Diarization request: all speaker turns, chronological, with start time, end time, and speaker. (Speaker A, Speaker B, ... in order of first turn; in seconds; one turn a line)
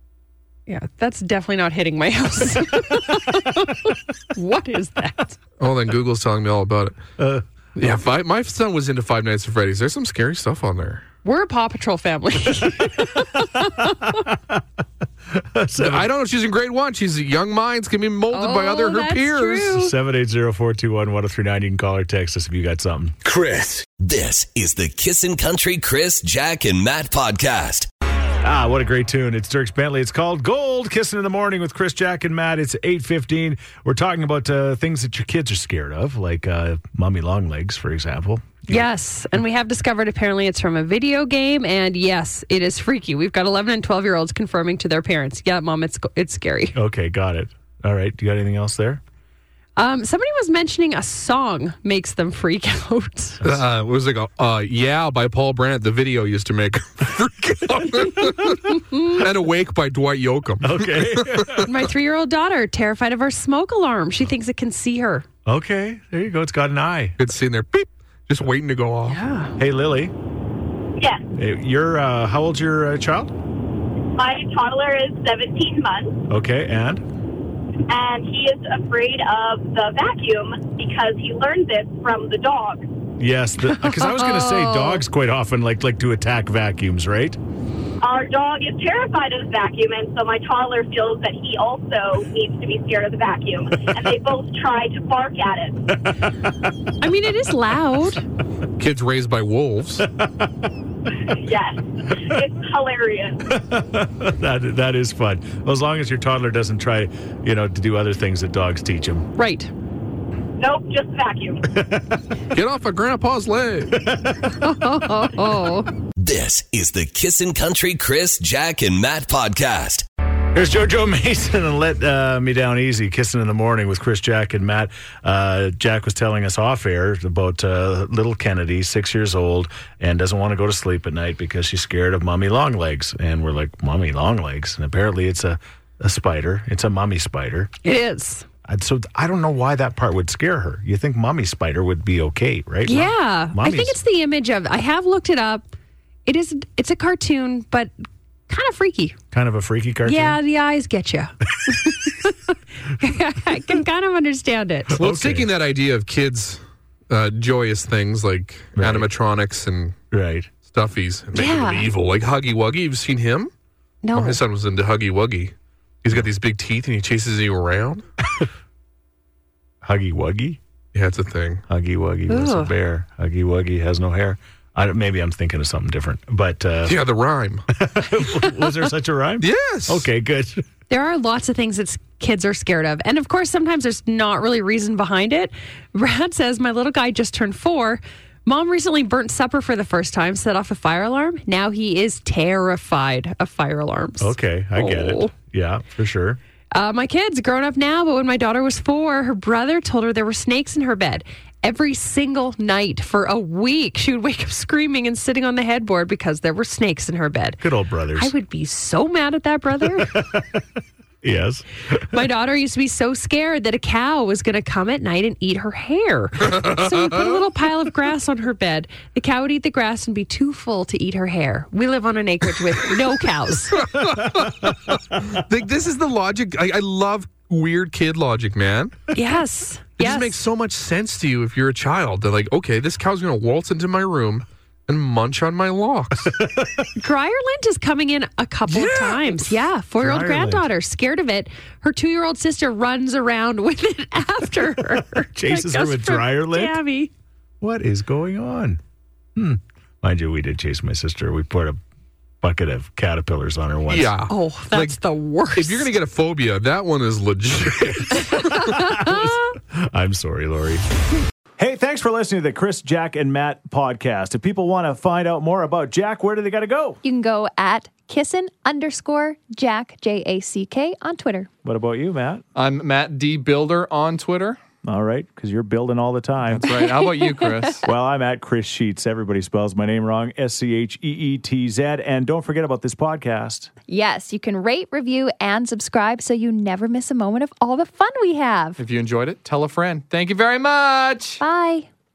Speaker A: 0.7-5.4
Speaker B: 5.6-7.0
Speaker C: 7.2-7.4
Speaker B: 7.8-11.0
Speaker A: 11.2-14.3
Speaker C: 13.4-14.6
Speaker C: 15.3-16.1
Speaker B: 15.8-19.8
Speaker A: 18.3-19.9
Speaker C: 19.7-23.8
Speaker D: 24.0-27.9
Speaker C: 28.4-38.9
Speaker A: 38.7-46.8
Speaker C: 46.8-49.0
Speaker A: 49.8-53.4
Speaker B: 53.4-61.6
Speaker A: 58.9-59.2
Speaker C: 60.6-61.7
Speaker A: 61.6-65.2
Speaker C: 65.5-67.2
Speaker B: 67.2-69.3
Speaker A: 69.1-69.5
Speaker C: 69.6-70.1
Speaker E: 71.0-71.3
Speaker C: 71.3-73.3
Speaker E: 74.2-76.2
Speaker C: 76.3-77.0
Speaker E: 77.9-82.8
Speaker C: 83.2-87.4
Speaker A: 83.6-85.0
Speaker E: 88.0-95.8
Speaker A: 97.0-98.2
Speaker B: 98.8-100.1
Speaker C: 100.0-100.5
Speaker E: 101.3-103.4
Speaker C: 103.5-109.3
Speaker A: 109.4-109.7
Speaker E: 110.6-111.6
Speaker C: 111.7-112.2
Speaker B: 112.5-114.0
Speaker C: 113.9-114.6
Speaker A: 114.5-115.9
Speaker D: 116.2-120.1
Speaker C: 120.5-137.7
Speaker A: 137.8-138.5
Speaker C: 138.7-144.0
Speaker A: 142.9-145.7
Speaker A: 146.3-147.9
Speaker A: 148.5-149.2
Speaker C: 149.3-150.4
Speaker A: 150.1-155.0
Speaker C: 154.9-155.5
Speaker B: 155.0-160.0
Speaker C: 158.8-159.1
Speaker C: 160.1-160.5
Speaker B: 160.7-163.5
Speaker A: 161.3-161.9
Speaker A: 164.0-164.4
Speaker B: 164.1-168.1
Speaker C: 169.8-170.6
Speaker B: 170.9-171.6
Speaker C: 171.7-177.0
Speaker A: 172.3-172.7
Speaker B: 176.8-177.6
Speaker C: 177.7-180.6
Speaker B: 179.4-180.1
Speaker A: 180.9-195.3
Speaker C: 194.2-196.4
Speaker A: 196.7-207.6
Speaker C: 207.6-208.3
Speaker A: 208.2-210.2
Speaker C: 210.0-210.6
Speaker C: 211.2-212.0
Speaker A: 212.1-223.9
Speaker B: 223.8-229.1
Speaker A: 229.1-230.4
Speaker B: 230.0-236.4
Speaker C: 236.3-236.9
Speaker A: 237.0-247.1
Speaker C: 238.7-240.7
Speaker C: 245.3-246.8
Speaker C: 247.6-248.8
Speaker C: 249.4-251.8
Speaker C: 252.4-254.1
Speaker B: 253.9-255.0
Speaker A: 254.3-255.9
Speaker B: 255.5-258.7
Speaker A: 258.5-259.4
Speaker C: 258.6-260.9
Speaker C: 261.6-267.0
Speaker F: 267.0-271.5
Speaker C: 271.6-272.4
Speaker G: 272.6-274.6
Speaker C: 274.9-276.7
Speaker G: 276.5-277.8
Speaker F: 276.7-277.6
Speaker C: 277.8-283.7
Speaker F: 283.9-288.8
Speaker G: 288.8-291.4
Speaker F: 291.4-291.9